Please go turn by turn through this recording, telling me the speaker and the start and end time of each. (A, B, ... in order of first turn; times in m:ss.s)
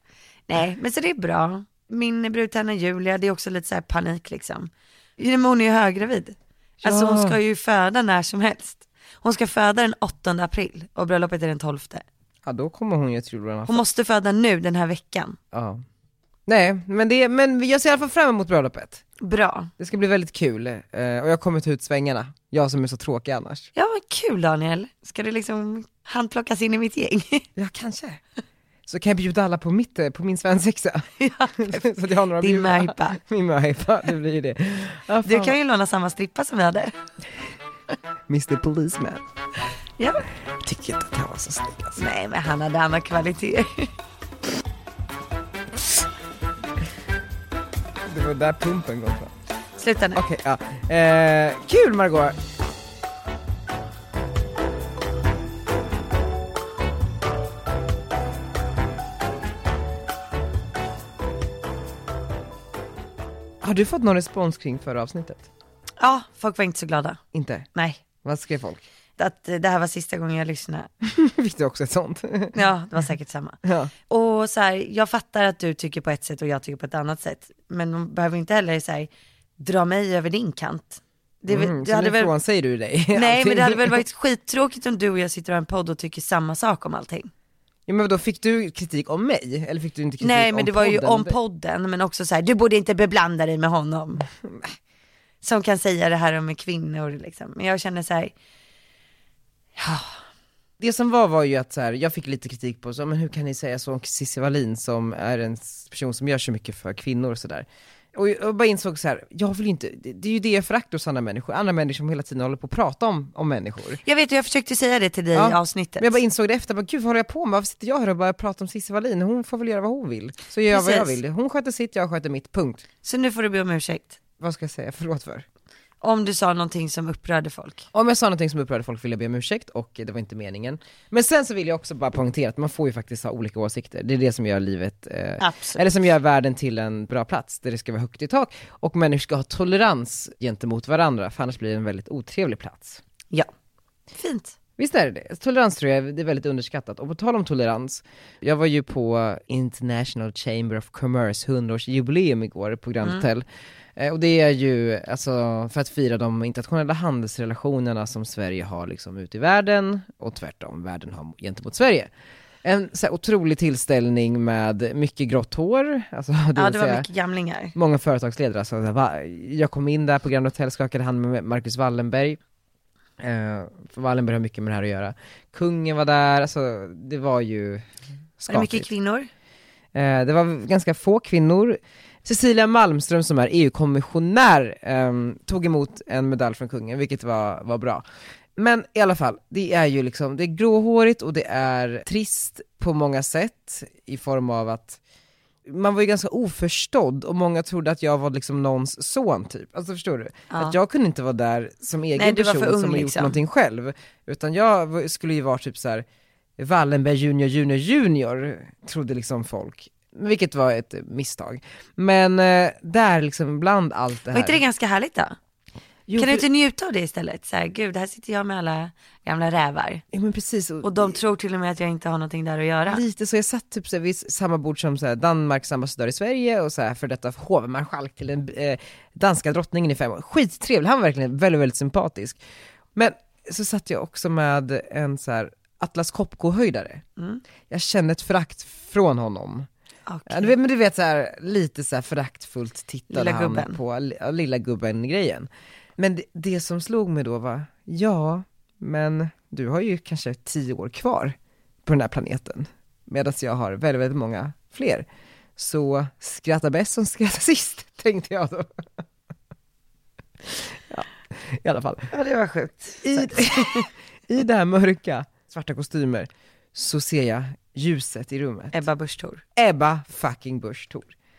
0:00.5-0:12.0 A
0:06.8-0:07.4 B
0:12.5-0:13.8 B
0:13.7-0:15.4 A
0:15.5-0:15.8 B
0:16.5-0:19.0 B
0:19.2-0:19.7 A
0:19.8-0:23.7 B
0:23.8-0:27.5 A
0:27.6-0:28.2 B
0:28.9-0:35.6 B
0:31.2-0:33.2 A
0:35.2-0:36.9 A
0:38.3-0:39.2 B
0:40.0-0:40.3 A
0:40.6-0:42.0 B
0:42.0-0:43.9 A
0:48.1-0:49.3 B
0:49.8-0:50.2 A
0:50.2-0:52.4 B
1:03.6-1:05.5 B
1:06.0-1:07.2 A
1:07.3-1:07.7 B
1:07.7-1:08.0 A
1:08.2-1:08.8 B
1:09.2-1:10.9 A
1:11.0-1:12.6 B
1:12.5-1:22.3 A
1:13.6-1:13.9 B
1:21.5-1:24.0 B
1:23.1-1:27.3 A
1:27.9-1:31.4 B
1:30.2-1:34.2 A
1:34.4-1:34.7 B
1:35.4-1:38.3 A
1:39.8-1:40.2 A
1:40.8-1:54.0 B
1:54.0-1:56.1 A
1:55.3-2:02.8 B
2:00.7-2:01.2 A
2:03.0-2:04.2 A
2:04.4-2:05.4 B
2:06.0-2:07.9 A
2:07.9-2:23.0 B
2:15.4-2:15.9 A
2:24.1-2:24.6 A
2:24.8-2:42.1 B
2:42.6-2:47.1 B
2:46.6-2:47.8 A
2:47.7-2:52.4 B
2:53.2-2:57.8 B
2:58.4-2:58.9 B
2:58.5-2:59.3 A
3:00.0-3:08.0 B
3:08.6-3:15.0 B
3:15.7-3:26.0 B
3:20.5-3:20.8 A
3:22.2-3:23.4 A
3:26.6-3:34.6 B
3:34.3-3:35.4 A
3:36.1-3:36.4 B
3:36.2-3:40.0 A
3:40.1-3:41.2 B
3:40.8-3:43.0 A
3:42.9-3:52.4 B
3:53.0-3:57.0 B
3:57.2-3:57.4 A
3:57.7-3:59.7 B
4:00.1-4:00.5 A
4:00.3-4:15.1 B
4:03.1-4:03.8 A
4:15.6-4:18.8 B
4:20.5-4:22.1 B
4:22.1-4:23.9 A
4:23.0-4:28.8 B
4:28.7-4:29.4 A
4:29.6-4:31.1 B